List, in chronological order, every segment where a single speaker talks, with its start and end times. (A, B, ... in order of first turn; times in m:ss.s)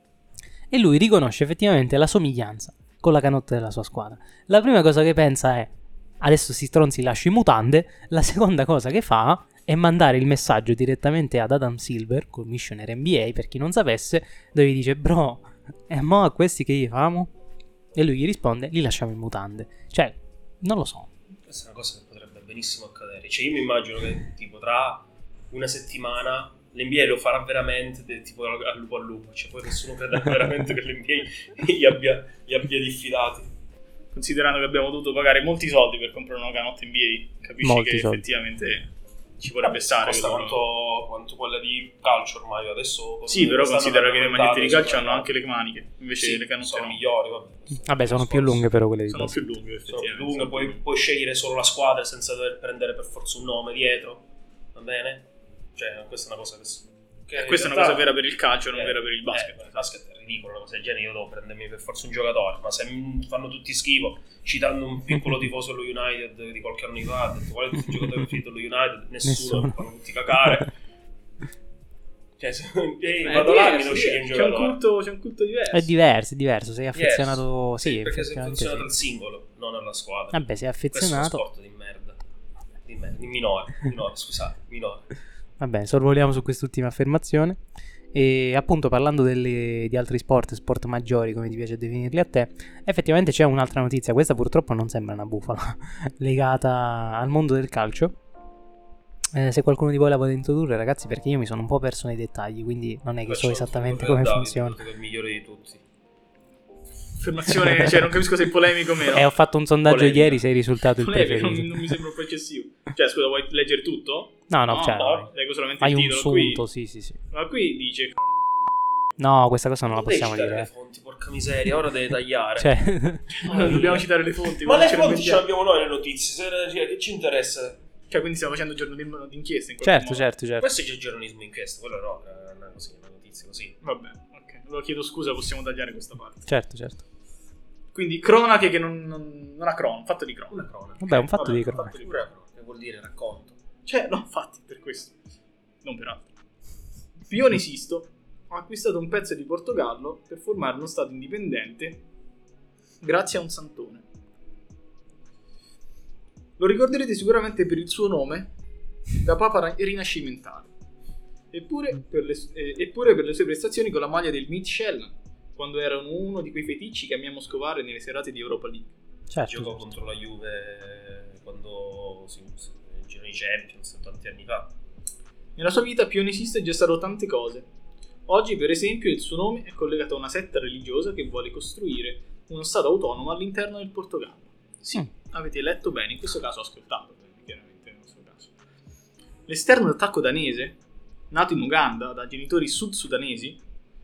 0:00.7-0:17.3 A
0:17.9-0:21.1 A
0:21.5-0:33.5 B
0:34.1-0:40.6 C
0:37.6-0:38.2 A
0:39.6-0:45.3 B
0:43.3-0:47.0 C
0:46.2-0:48.6 B
0:47.8-0:49.4 A
0:49.1-0:50.8 C
0:49.9-0:58.1 B
0:57.4-0:59.9 C
0:58.7-1:10.7 B
1:09.2-1:09.8 A
1:12.4-1:14.8 B
1:13.2-1:15.9 C
1:15.7-1:18.9 A
1:16.9-1:22.2 B
1:20.3-1:21.4 A
1:22.8-1:25.1 B
1:25.6-1:27.6 A
1:28.1-1:38.1 A
1:39.3-1:44.8 A
1:43.2-1:45.8 B
1:47.2-1:49.3 C
1:49.1-1:51.9 A
1:49.8-1:50.4 C
1:51.0-1:56.6 C
1:54.5-1:55.3 A
1:54.9-1:55.3 B
1:55.8-1:57.2 A
1:57.3-1:58.2 C
1:59.2-2:00.7 A
1:59.9-2:02.8 B
2:02.6-2:03.8 A
2:03.4-2:04.0 B
2:03.4-2:05.4 C
2:04.6-2:07.8 B
2:08.1-2:10.2 C
2:09.8-2:10.7 A
2:10.6-2:13.8 B
2:13.8-2:16.5 C
2:16.5-2:17.0 A
2:17.9-2:20.6 C
2:20.5-2:23.6 B
2:21.0-2:21.9 A
2:21.8-2:22.1 C
2:23.8-2:25.1 C
2:25.8-2:26.3 C
2:27.3-2:32.0 C
2:33.0-2:34.0 C
2:36.6-2:38.5 C
2:39.2-2:40.7 C
2:41.5-2:48.9 C
2:49.3-2:49.8 A
2:49.4-2:54.7 B
2:55.6-2:57.6 C
2:58.3-3:08.5 C
3:09.5-3:10.8 C
3:11.3-3:13.6 C